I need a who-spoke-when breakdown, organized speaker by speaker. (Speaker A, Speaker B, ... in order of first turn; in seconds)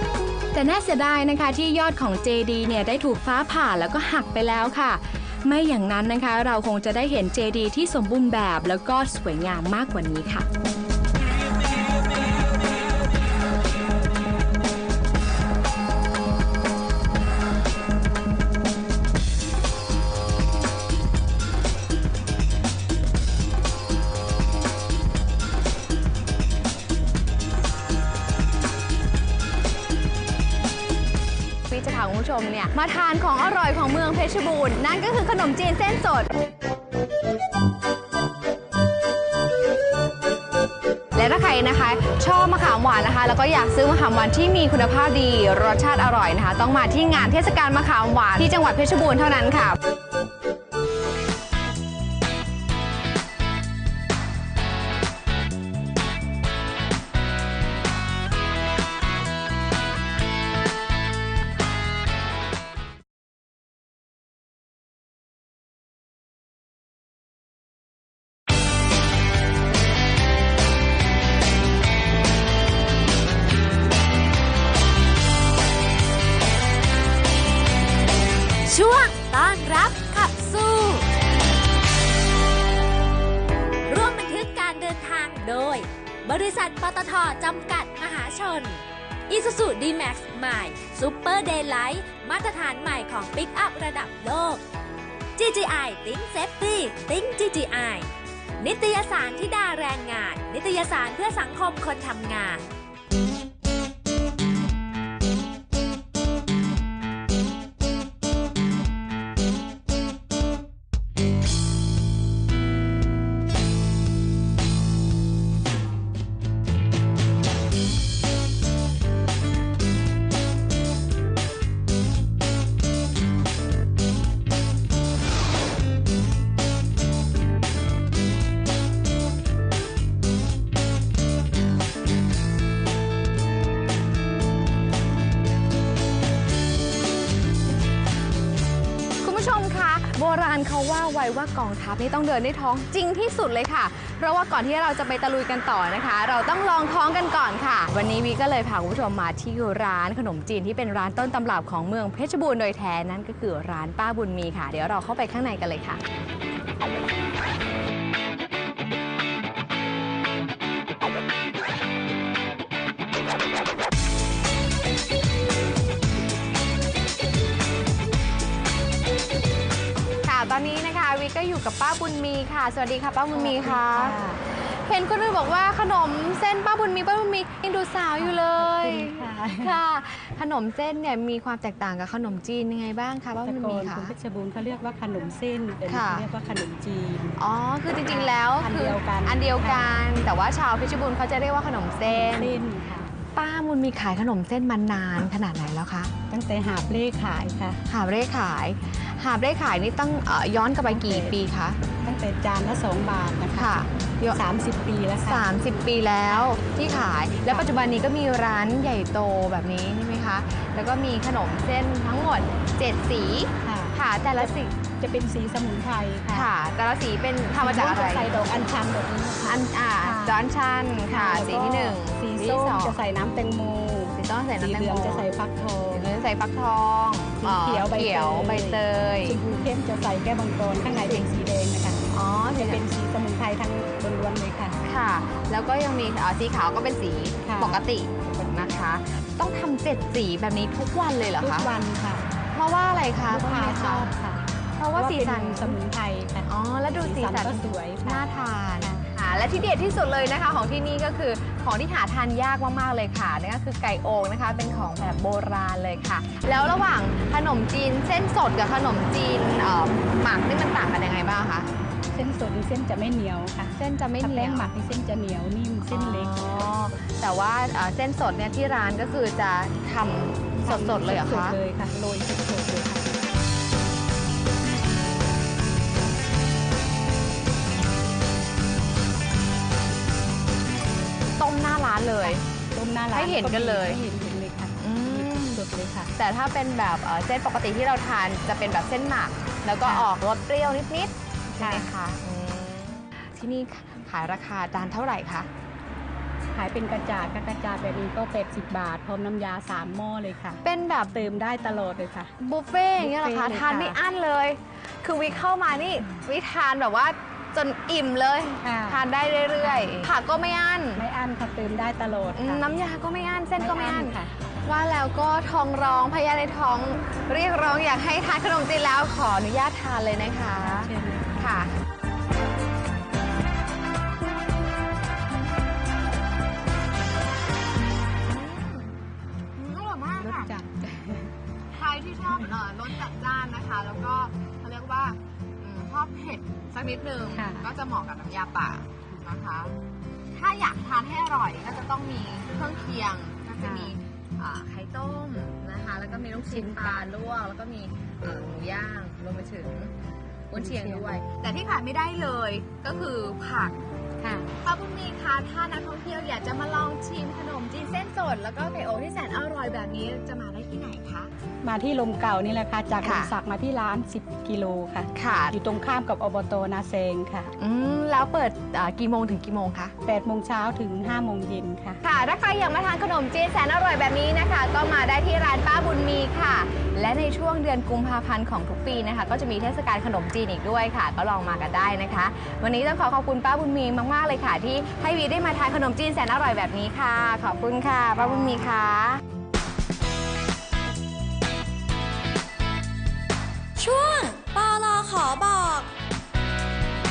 Speaker A: 0.5-10.5, 31.7-36.3, 41.1-49.8, 139.2-156.0, 170.2-184.1, 185.8-186.3, 187.4-192.6, 193.3-196.1, 197.9-201.8, 203.5-204.4, 205.2-214.7, 216.3-218.3, 219.4-223.0, 224.2-225.3, 225.9-229.4, 232.1-232.8, 234.8-241.7, 242.5-244.1, 244.8-245.8, 246.4-261.7, 263.8-264.7, 265.9-271.6, 281.3-282.4, 283.1-284.0, 284.8-285.6, 286.2-295.5, 300.6-301.2, 302.4-311.0, 312.3-321.7, 328.3-328.9, 329.6-330.5, 331.7-339.7, 340.3-349.9, 350.5-353.7, 354.6-361.3, 363.0-363.3, 365.1-365.6, 367.6-369.9, 372.0-389.2
Speaker B: 78.7-81.0, 83.8-94.6, 95.4-102.6
Speaker C: 173.3-174.4, 178.2-179.8, 183.4-187.4, 188.1-189.9, 192.1-193.1, 196.3-197.8, 200.9-201.4, 202.0-205.6, 206.2-207.7, 213.6-216.5, 217.6-220.4, 221.1-226.1, 227.4-234.8, 237.4-237.8, 241.4-242.3, 243.2-248.3, 248.8-249.1, 262.1-266.7, 270.6-273.1, 282.2-286.1, 289.8-290.1, 291.6-291.9, 296.5-300.6, 301.1-302.3, 303.0-304.0, 308.6-309.0, 309.6-310.1, 310.9-312.7, 313.6-314.3, 320.6-321.7, 330.2-331.3, 337.3-337.7, 343.6-343.9, 346.3-347.0, 350.6-351.1, 354.2-354.5, 361.6-367.5, 370.0-372.0
Speaker D: 393.8-395.9